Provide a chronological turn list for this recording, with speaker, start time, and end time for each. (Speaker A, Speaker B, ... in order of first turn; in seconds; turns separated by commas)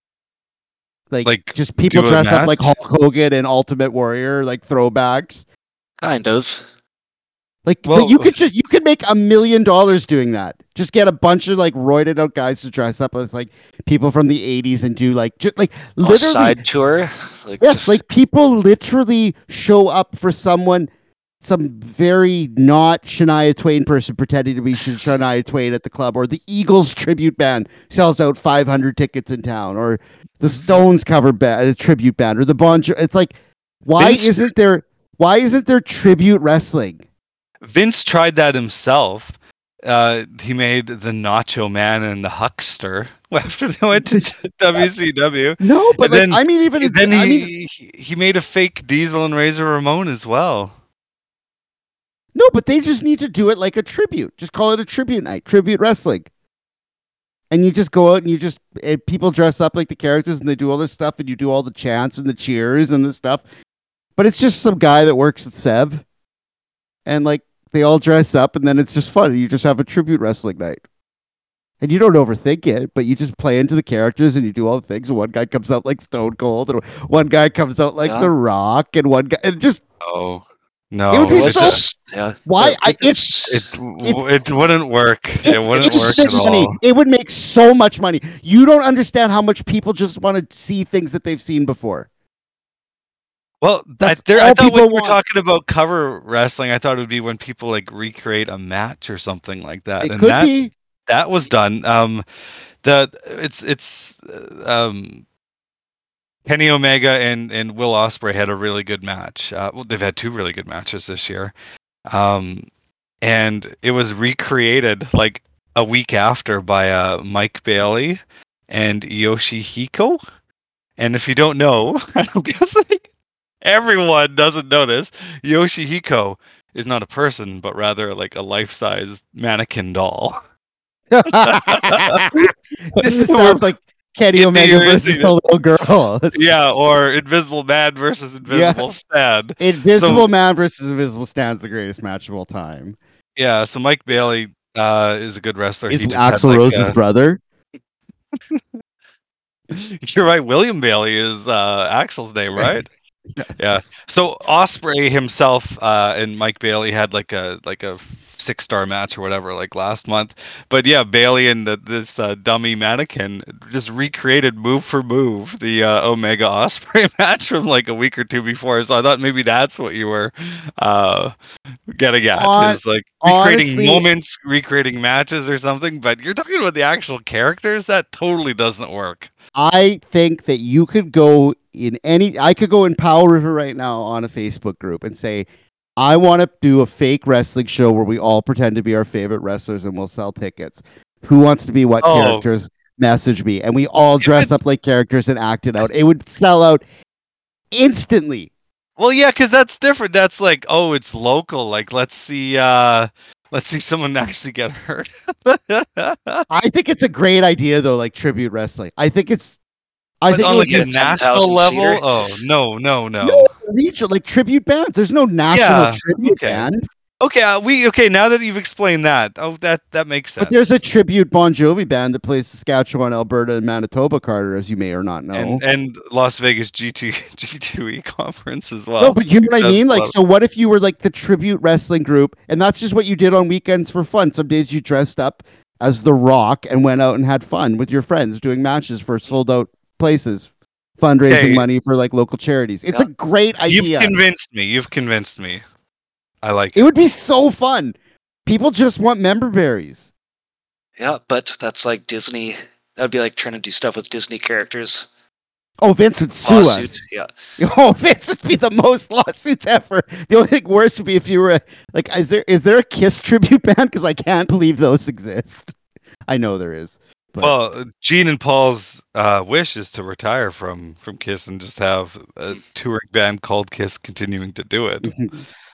Speaker A: 1.1-5.4, Speaker B: 1.2-2.7, Speaker C: 6.0-6.6, Speaker A: 7.6-16.6, Speaker B: 7.8-8.3, Speaker C: 16.0-18.0, Speaker A: 17.6-20.9, Speaker A: 21.4-37.0, Speaker B: 34.0-34.5, Speaker B: 37.6-50.7, Speaker A: 43.9-44.2, Speaker A: 45.6-47.5, Speaker A: 52.3-56.3, Speaker A: 57.5-63.4, Speaker A: 64.2-66.0, Speaker A: 67.0-70.8, Speaker A: 71.8-79.8, Speaker C: 78.0-78.3, Speaker B: 80.0-81.8, Speaker A: 81.1-81.8, Speaker C: 81.3-83.7, Speaker A: 82.5-83.3, Speaker B: 83.5-86.8, Speaker A: 85.4-92.1, Speaker B: 93.6-100.5, Speaker A: 94.0-95.2, Speaker A: 100.0-100.7, Speaker B: 101.1-102.2, Speaker B: 102.8-105.2, Speaker B: 106.5-111.5, Speaker B: 112.1-112.7, Speaker B: 113.2-120.2, Speaker B: 121.0-123.0, Speaker B: 123.6-130.4, Speaker A: 131.1-136.4, Speaker B: 131.3-133.7, Speaker B: 134.3-135.3, Speaker B: 136.3-140.3, Speaker A: 138.4-138.8, Speaker A: 139.6-143.0, Speaker B: 143.4-147.0, Speaker A: 145.9-147.4, Speaker B: 149.7-152.9, Speaker A: 153.4-153.9, Speaker B: 153.6-171.3, Speaker B: 171.9-179.3, Speaker A: 172.3-174.1, Speaker A: 179.6-185.5, Speaker A: 186.0-196.8, Speaker B: 192.0-192.4, Speaker B: 194.2-194.5, Speaker A: 197.7-198.5, Speaker B: 199.0-206.4, Speaker A: 206.5-209.6, Speaker A: 210.2-211.2, Speaker B: 210.3-213.5, Speaker C: 210.4-212.0, Speaker A: 213.2-216.8, Speaker B: 215.5-216.7, Speaker B: 217.2-220.8, Speaker A: 220.4-225.6, Speaker B: 225.3-230.1, Speaker A: 229.0-244.1, Speaker B: 241.3-241.6, Speaker B: 243.7-245.6, Speaker B: 246.4-246.9, Speaker A: 246.8-250.1, Speaker C: 251.0-255.1, Speaker A: 255.8-257.0, Speaker C: 256.4-257.3, Speaker A: 257.6-265.7, Speaker A: 266.3-267.5, Speaker B: 267.4-275.1, Speaker A: 275.0-275.3